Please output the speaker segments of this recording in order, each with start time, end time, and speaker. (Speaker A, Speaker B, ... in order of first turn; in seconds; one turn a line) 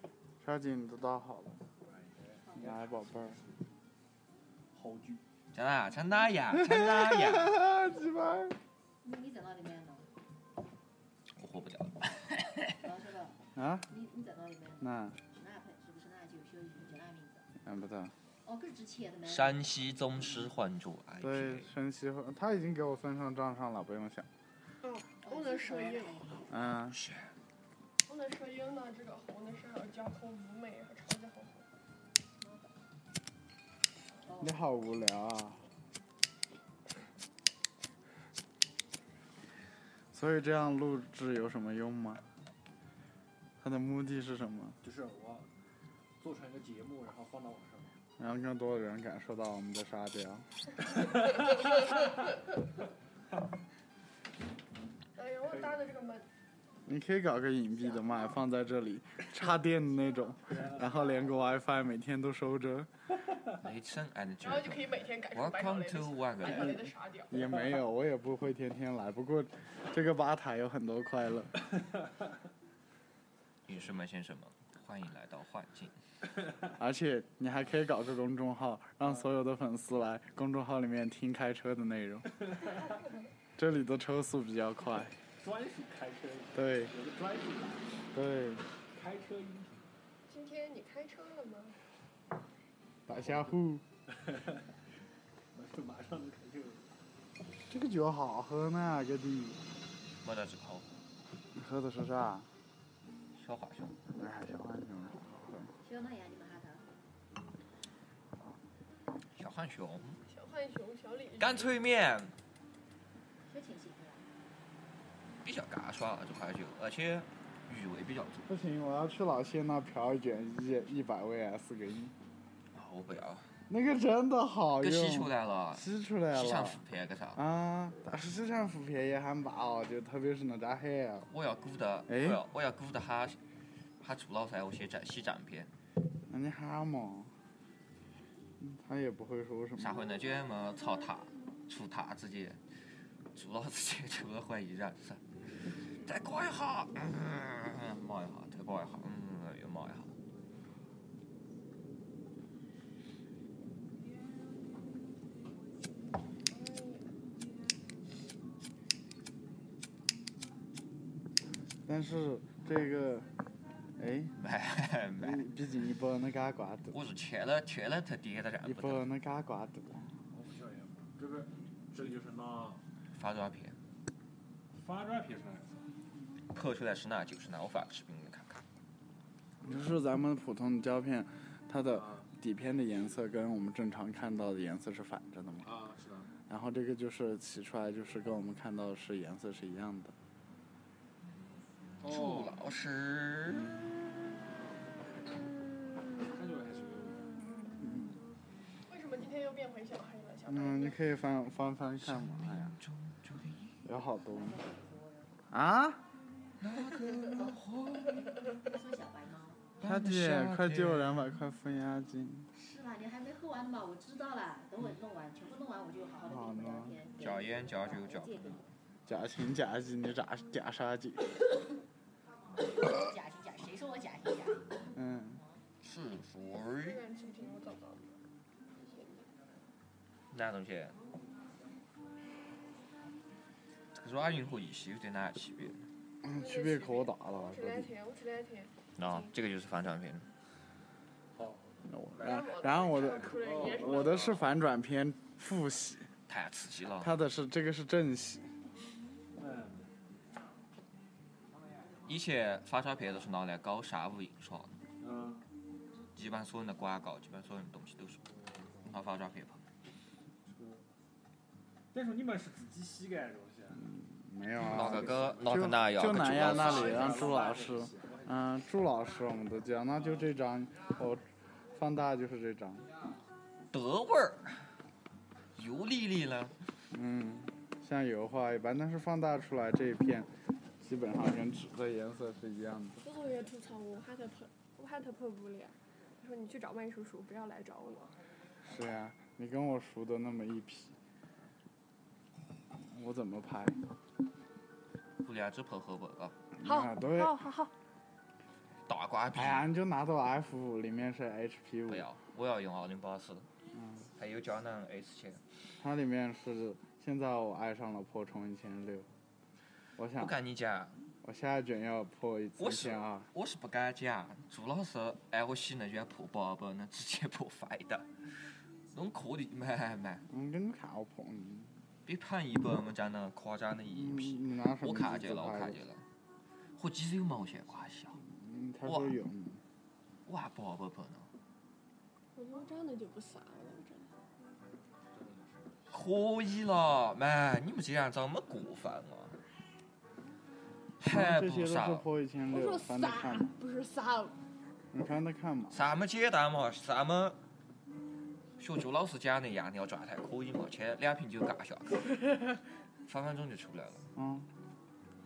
Speaker A: 0.4-1.6
Speaker B: 1.8-3.4
Speaker A: 2.6-3.4
Speaker B: 4.7-5.2
Speaker C: 5.5-7.6
Speaker A: 6.6-8.6
Speaker D: 9.0-10.1
Speaker C: 11.3-12.8
Speaker D: 12.8-17.5
Speaker A: 13.6-13.9
Speaker A: 14.8-15.2
Speaker A: 17.6-18.1
Speaker D: 18.4-19.7
Speaker C: 19.3-21.7
Speaker A: 21.2-24.3
Speaker E: 24.8-26.2
Speaker D: 25.2-26.5
Speaker A: 26.5-27.0
Speaker C: 26.9-27.3
Speaker E: 28.1-31.6
Speaker D: 32.4-32.7
Speaker D: 34.2-34.6
Speaker A: 34.4-35.6
Speaker A: 40.1-42.2
Speaker A: 43.6-44.8
Speaker B: 44.8-45.5
Speaker B: 46.2-48.0
Speaker A: 48.2-50.5
Speaker B: 51.0-51.5
Speaker E: 55.1-56.2
Speaker B: 55.5-55.8
Speaker A: 56.9-62.9
Speaker B: 60.5-60.9
Speaker C: 63.6-66.8
Speaker E: 64.4-67.6
Speaker A: 67.3-71.6
Speaker C: 73.7-76.0
Speaker A: 76.8-82.4
Speaker B: 82.3-82.9
Speaker A: 83.6-85.2
Speaker B: 85.4-88.0
Speaker A: 86.5-86.9
Speaker A: 88.1-88.7
Speaker B: 88.9-89.9
Speaker E: 90.3-91.8
Speaker A: 93.1-93.8
Speaker B: 94.1-94.7
Speaker B: 95.5-96.8
Speaker A: 97.7-99.6
Speaker C: 100.2-100.9
Speaker A: 101.5-102.5
Speaker C: 103.3-104.0
Speaker A: 104.2-105.7
Speaker D: 105.8-106.8
Speaker C: 109.4-110.2
Speaker E: 110.3-111.8
Speaker C: 111.4-112.3
Speaker D: 113.5-114.3
Speaker C: 115.4-118.5
Speaker A: 118.5-122.1
Speaker C: 122.7-123.5
Speaker A: 123.7-126.8
Speaker C: 124.8-127.4
Speaker A: 127.4-131.3
Speaker C: 131.3-133.4
Speaker A: 132.1-132.4
Speaker C: 134.0-135.7
Speaker A: 136.3-137.3
Speaker A: 138.6-140.0
Speaker C: 139.8-142.6
Speaker C: 143.3-145.2
Speaker C: 145.8-150.1
Speaker E: 156.5-157.1
Speaker A: 161.9-163.3
Speaker A: 164.0-164.4
Speaker C: 164.4-165.5
Speaker A: 165.2-167.0
Speaker C: 166.9-169.1
Speaker A: 168.6-170.1
Speaker B: 170.3-172.8
Speaker C: 173.2-173.8
Speaker B: 174.7-175.8
Speaker C: 176.5-178.6
Speaker A: 179.6-185.7
Speaker B: 181.9-182.3
Speaker B: 185.6-186.3
Speaker A: 186.5-190.1
Speaker B: 192.0-192.6
Speaker C: 192.1-193.8
Speaker B: 196.2-197.4
Speaker A: 197.8-198.2
Speaker E: 198.9-201.0
Speaker A: 200.5-202.7
Speaker C: 202.0-203.8
Speaker A: 203.8-204.6
Speaker D: 204.3-205.4
Speaker A: 205.5-206.0
Speaker C: 206.6-208.3
Speaker D: 208.5-209.7
Speaker C: 209.8-211.2
Speaker A: 209.8-212.5
Speaker D: 212.5-218.7
Speaker A: 216.3-217.0
Speaker C: 217.2-218.6
Speaker A: 219.1-221.4
Speaker D: 222.6-224.8
Speaker A: 224.9-225.4
Speaker D: 225.4-225.6
Speaker C: 225.8-227.0
Speaker E: 226.7-228.2
Speaker E: 228.8-229.2
Speaker C: 230.3-231.0
Speaker C: 233.9-235.9
Speaker A: 236.2-237.9
Speaker E: 236.3-239.3
Speaker C: 239.0-240.3
Speaker B: 241.4-242.3
Speaker A: 241.9-246.1
Speaker E: 242.2-244.4
Speaker B: 243.1-244.5
Speaker C: 246.3-247.1
Speaker A: 247.0-248.5
Speaker B: 249.4-249.9
Speaker C: 252.1-254.7
Speaker B: 255.0-255.4
Speaker C: 256.1-258.2
Speaker C: 258.9-259.6
Speaker B: 260.5-260.9
Speaker B: 261.9-263.9
Speaker A: 263.8-272.9
Speaker C: 264.6-267.3
Speaker B: 264.9-265.4
Speaker B: 266.3-268.4
Speaker B: 270.0-270.3
Speaker C: 273.7-274.6
Speaker C: 275.6-276.6
Speaker A: 276.9-280.3
Speaker A: 280.8-283.0
Speaker E: 283.0-288.1
Speaker A: 288.7-290.9
Speaker A: 292.9-293.8
Speaker C: 295.2-296.4
Speaker A: 296.6-297.4
Speaker E: 296.6-297.7
Speaker C: 298.9-299.7
Speaker A: 299.4-302.1
Speaker C: 301.9-303.5
Speaker A: 303.8-304.1
Speaker C: 304.2-305.4
Speaker A: 305.8-309.1
Speaker A: 310.0-310.3
Speaker C: 310.1-311.0
Speaker A: 311.2-313.3
Speaker C: 312.6-318.1
Speaker C: 318.9-320.2
Speaker A: 320.3-321.7
Speaker C: 322.1-326.1
Speaker A: 323.9-325.8
Speaker C: 326.8-328.2
Speaker A: 328.2-329.6
Speaker C: 328.9-329.2
Speaker C: 330.3-331.3
Speaker E: 332.4-334.1
Speaker B: 335.1-335.7
Speaker C: 335.9-339.4
Speaker C: 341.0-342.1
Speaker A: 341.0-343.5
Speaker E: 342.5-344.4
Speaker A: 344.9-345.9
Speaker C: 345.7-347.4
Speaker C: 348.6-352.1
Speaker C: 353.1-354.1
Speaker A: 354.1-354.5